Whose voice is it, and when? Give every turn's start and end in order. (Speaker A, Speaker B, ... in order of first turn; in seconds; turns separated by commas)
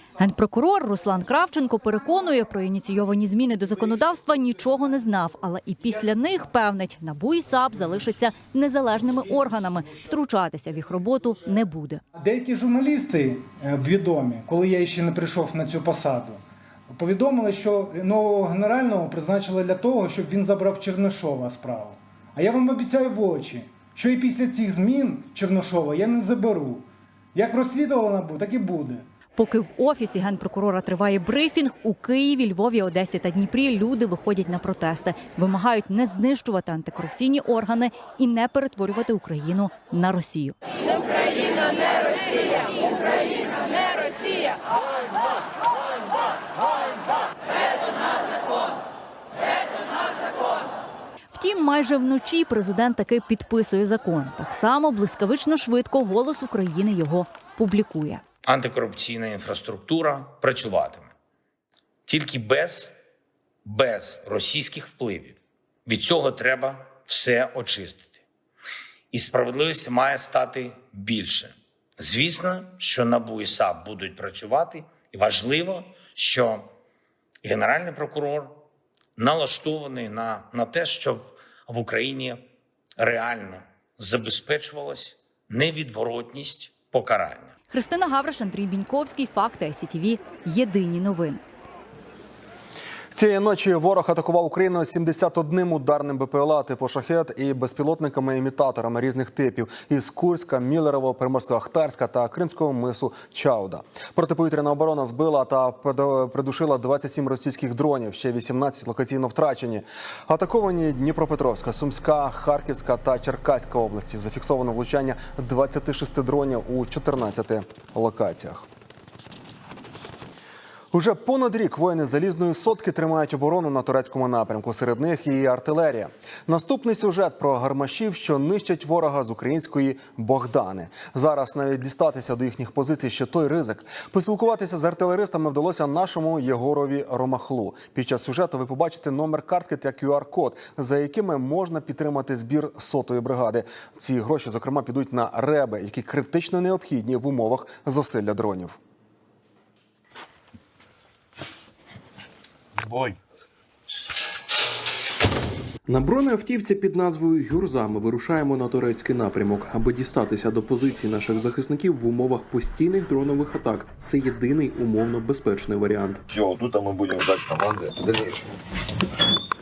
Speaker A: 0.2-12.0, Speaker B: 12.2-29.1, Speaker A: 29.4-40.6, Speaker A: 51.3-58.2, Speaker C: 58.5-61.1, Speaker C: 62.1-62.9, Speaker C: 63.6-68.2, Speaker C: 69.1-76.7, Speaker C: 77.4-78.6, Speaker C: 79.2-82.4, Speaker C: 83.0-87.5, Speaker A: 87.7-91.5, Speaker D: 93.1-118.7, Speaker D: 120.9-148.8, Speaker E: 155.9-166.2, Speaker F: 166.4-168.4